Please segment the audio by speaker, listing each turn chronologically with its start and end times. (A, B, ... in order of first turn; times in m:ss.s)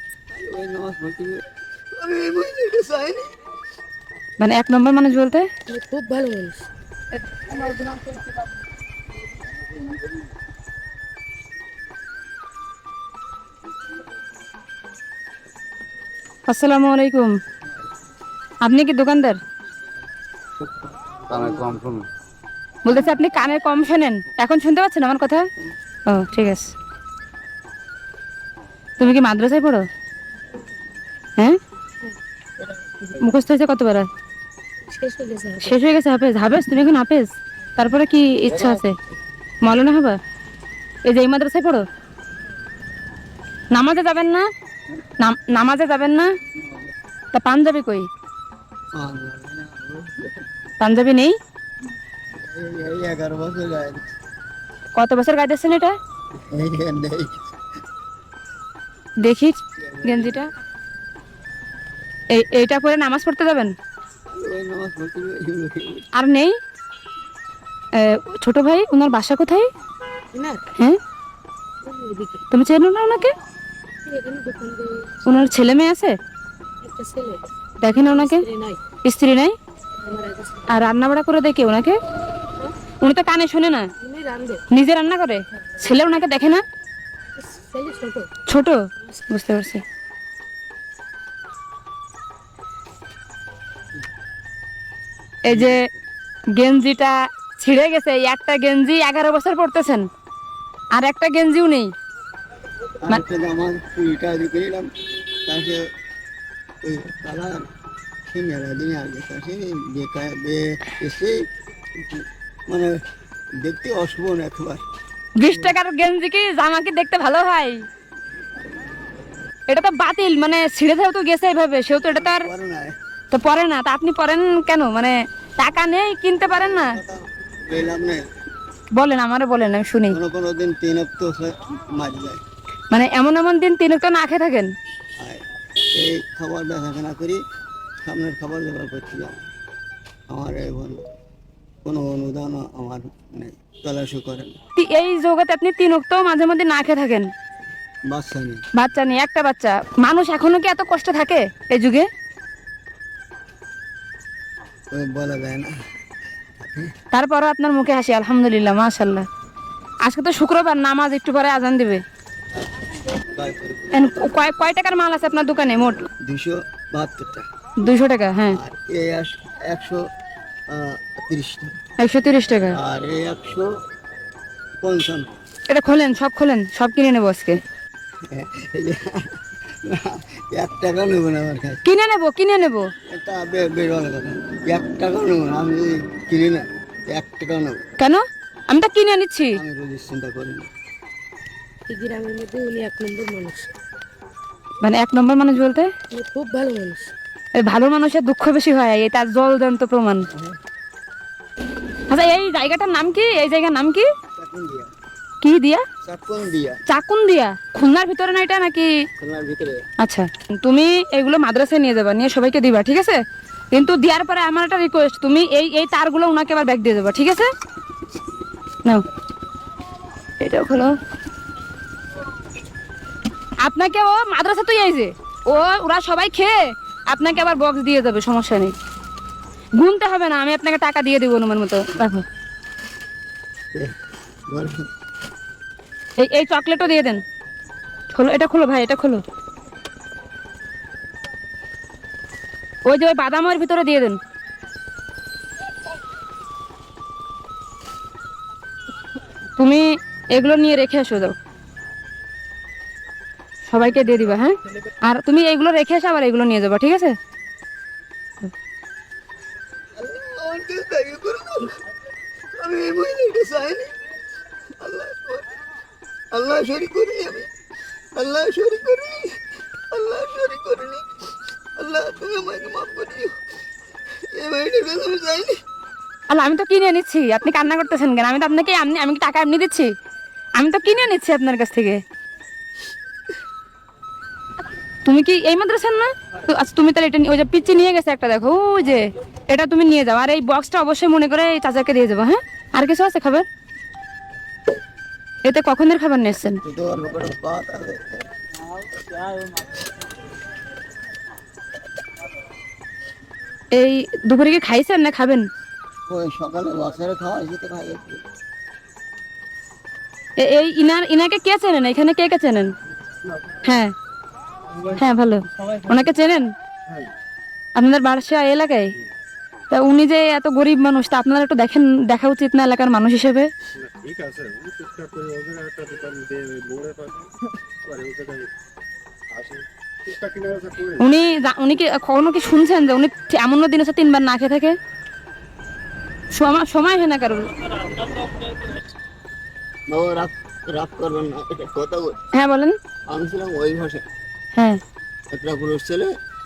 0:00.3-0:01.4 A
0:02.0-0:03.3 A
0:04.4-0:05.5 B
0:05.7-0:06.6 C
0:16.5-0:17.4 B
0:18.6-0:19.4 B
0:21.2-0:21.8 A
0:21.3-0:22.1 D
0:22.8-0:25.5 B
0:26.1-0:26.8 B
0:29.0-0:29.9 B
0:33.1-0:34.1 B
0:34.9-0:35.8 C
0:35.6-0:39.0 B
0:39.6-0:40.2 B
0:41.0-0:41.9 B
0:43.7-0:44.5 B
0:45.2-0:46.3 B
0:46.6-0:46.9 A
0:47.3-0:48.1 B
0:48.9-0:50.5 A
0:50.8-0:51.4 B
0:52.4-0:54.1 A
0:55.0-0:56.0 B
0:56.5-0:57.4 A
0:59.2-1:00.5 B
0:59.8-1:00.4 A
1:02.3-1:03.7 B
1:04.3-1:06.1 A
1:06.1-1:06.6 B
1:07.9-1:09.7 B
1:10.3-1:10.7 C
1:11.8-1:12.5 C
1:12.5-1:13.3 B
1:14.1-1:15.2 C
1:15.2-1:16.2 B
1:16.8-1:18.8 C
1:17.8-1:18.4 B
1:19.0-1:19.6 B
1:20.0-1:20.7 C
1:20.7-1:22.0 B
1:23.0-1:23.9 B
1:24.0-1:24.6 C
1:24.7-1:26.6 B
1:27.4-1:28.3 C
1:28.5-1:29.8 B
1:35.5-1:35.8 B
1:35.5-1:36.0 A
1:36.6-1:40.1 B
1:40.9-1:41.9 B
1:43.0-1:44.9 A
1:45.4-1:45.8 A
1:46.8-1:47.7 A
1:48.3-1:51.4 A
1:52.0-1:53.0 A
1:53.6-1:54.8 A
1:55.4-1:57.8 B
1:55.4-1:55.8 A
1:59.7-2:02.5 B
2:02.0-2:03.0 A
2:03.3-2:07.0 B
2:06.6-2:08.3 A
2:09.0-2:10.2 B
2:10.1-2:12.4 A
2:12.9-2:14.7 B
2:15.2-2:17.4 A
2:18.0-2:19.5 A
2:20.3-2:21.0 A
2:21.8-2:24.6 A
2:24.8-2:27.3 B
2:28.1-2:28.6 A
2:28.8-2:32.1 B
2:34.9-2:35.7 A
2:36.6-2:36.9 A
2:37.1-2:39.3 B
2:40.0-2:42.0 B
2:42.6-2:44.2 A
2:43.9-2:46.1 B
2:46.2-2:47.4 A
2:47.8-2:48.6 B
2:48.5-2:50.1 A
2:50.7-2:51.8 A
2:52.0-2:52.8 B
2:52.7-2:53.7 A
2:54.8-2:55.4 A
2:55.7-2:57.6 B
2:58.3-3:01.8 A
3:01.8-3:02.9 B
3:03.1-3:07.8 A
3:08.0-3:09.6 B
3:09.6-3:10.7 A
3:11.9-3:13.7 C
3:14.8-3:15.9 B
3:16.1-3:17.1 C
3:17.6-3:20.3 B
3:20.3-3:20.6 A
3:22.1-3:24.1 B
3:24.4-3:24.9 A
3:25.4-3:25.9 B
3:26.0-3:26.8 A
3:26.9-3:29.0 B
3:29.2-3:29.8 A
3:30.0-3:37.5 B
3:40.4-3:41.0 B
3:43.6-3:48.7 B
3:49.8-3:52.2 B
3:54.5-3:54.9 A
3:56.2-3:57.2 B
3:58.1-3:59.2 B
4:02.8-4:04.2 B
4:09.6-4:11.4 B
4:13.7-4:17.2 B
4:20.0-4:21.8 A
4:22.6-4:24.1 A
4:24.8-4:25.6 A
4:26.3-4:27.5 A
4:28.1-4:29.4 A
4:29.9-4:31.2 A
4:31.8-4:33.4 A
4:34.1-4:35.6 A
4:36.3-4:39.9 B
4:40.6-4:42.0 B
4:45.0-4:53.5 B
4:55.4-4:56.6 B
4:56.6-4:59.3 A
5:03.7-5:05.5 B
5:06.1-5:08.2 A
5:10.4-5:12.7 B
5:13.6-5:13.9 B
5:14.8-5:16.5 B
5:17.8-5:19.0 B
5:19.7-5:23.5 B
5:24.0-5:27.3 D
5:27.9-5:28.5 D
5:30.2-5:30.7 D
5:30.8-5:34.8 B
5:36.3-5:38.3 B
5:39.9-5:42.2 A
5:42.3-5:42.8 B
5:43.1-5:44.0 A
5:44.6-5:44.8 B
5:45.3-5:46.1 A